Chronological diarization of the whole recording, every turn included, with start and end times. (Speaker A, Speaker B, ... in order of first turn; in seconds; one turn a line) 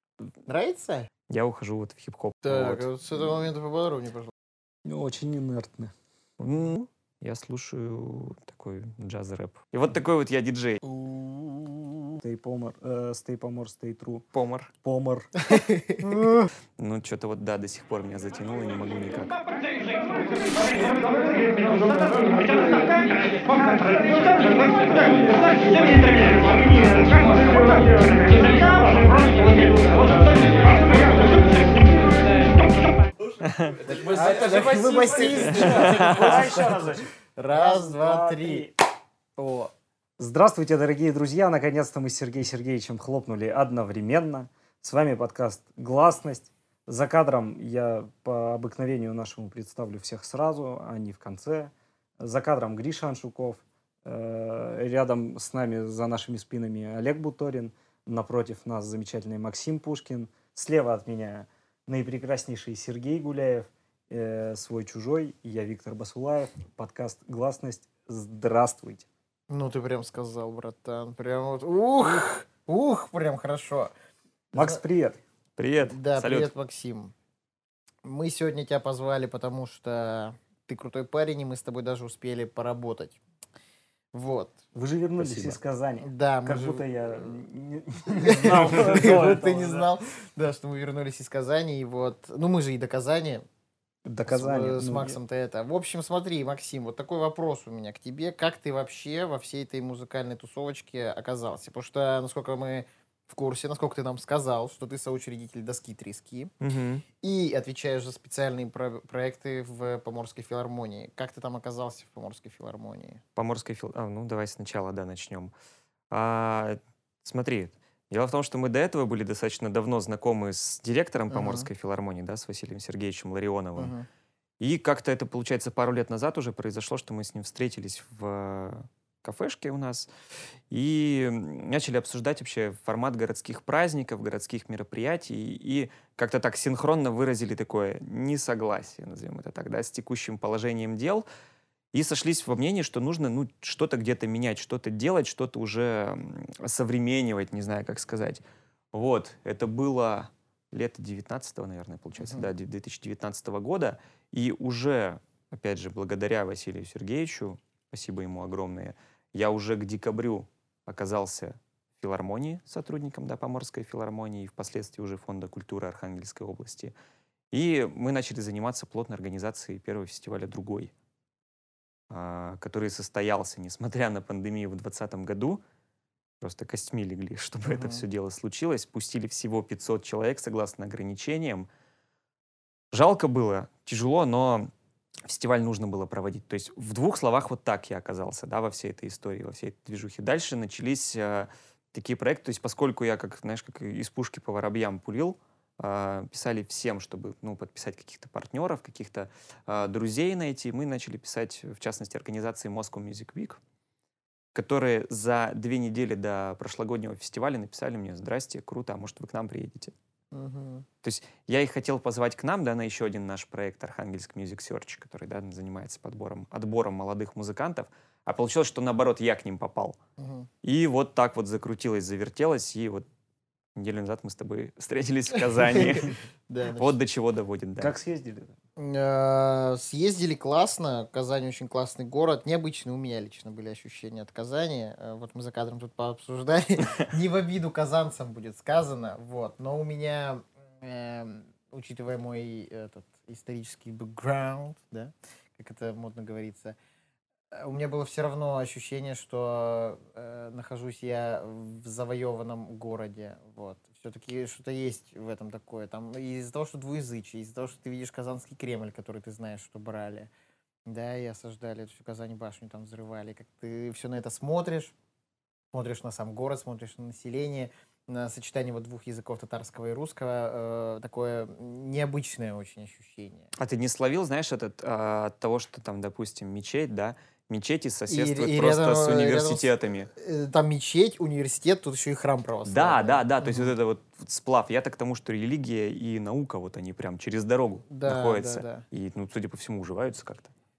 Speaker A: 0.5-1.1
Speaker B: 1.3-2.9
Speaker A: 2.4-4.3
Speaker C: 4.8-5.9
Speaker B: 6.4-10.8
Speaker C: 10.8-14.3
Speaker B: 14.3-14.7
Speaker C: 14.8-16.5
Speaker A: 15.5-16.0
Speaker B: 16.8-19.4
Speaker B: 33.4-33.8
Speaker A: 33.9-38.7
Speaker C: 34.0-38.7
Speaker B: 35.6-36.5
Speaker C: 39.4-69.0
Speaker A: 69.5-73.9
Speaker C: 74.5-75.2
Speaker A: 74.5-74.8
Speaker B: 75.6-76.5
Speaker A: 75.8-77.1
Speaker A: 78.0-83.2
Speaker A: 84.1-84.6
Speaker C: 84.7-89.9
Speaker B: 85.2-85.5
Speaker A: 86.0-87.1
Speaker A: 88.1-93.4
Speaker C: 94.0-95.2
Speaker A: 94.3-106.5
Speaker B: 106.6-107.0
Speaker A: 107.2-113.2
Speaker B: 113.3-115.5
Speaker B: 116.1-123.9
Speaker A: 121.3-121.7
Speaker A: 123.8-124.0
Speaker B: 124.6-130.1
Speaker B: 130.7-141.2
Speaker B: 141.9-166.9
Speaker A: 152.2-152.5
Speaker B: 167.5-170.9
Speaker B: 172.1-175.6
Speaker B: 176.4-181.7
Speaker A: 177.7-178.0
Speaker B: 182.9-184.7
Speaker B: 185.3-203.6
Speaker B: 204.5-209.9
Speaker A: 210.3-210.8
Speaker B: 211.0-220.0
Speaker A: 220.2-220.5
Speaker B: 220.6-223.1
Speaker B: 223.7-226.1
Speaker A: 225.4-227.0
Speaker B: 226.8-227.9
Speaker C: 227.8-228.6
Speaker A: 228.8-246.8
Speaker A: 247.5-260.3
Speaker A: 260.9-264.9
Speaker A: 265.7-273.5
Speaker B: 273.6-280.1
Speaker A: 278.1-283.7
Speaker B: 282.6-290.5
Speaker A: 287.9-288.8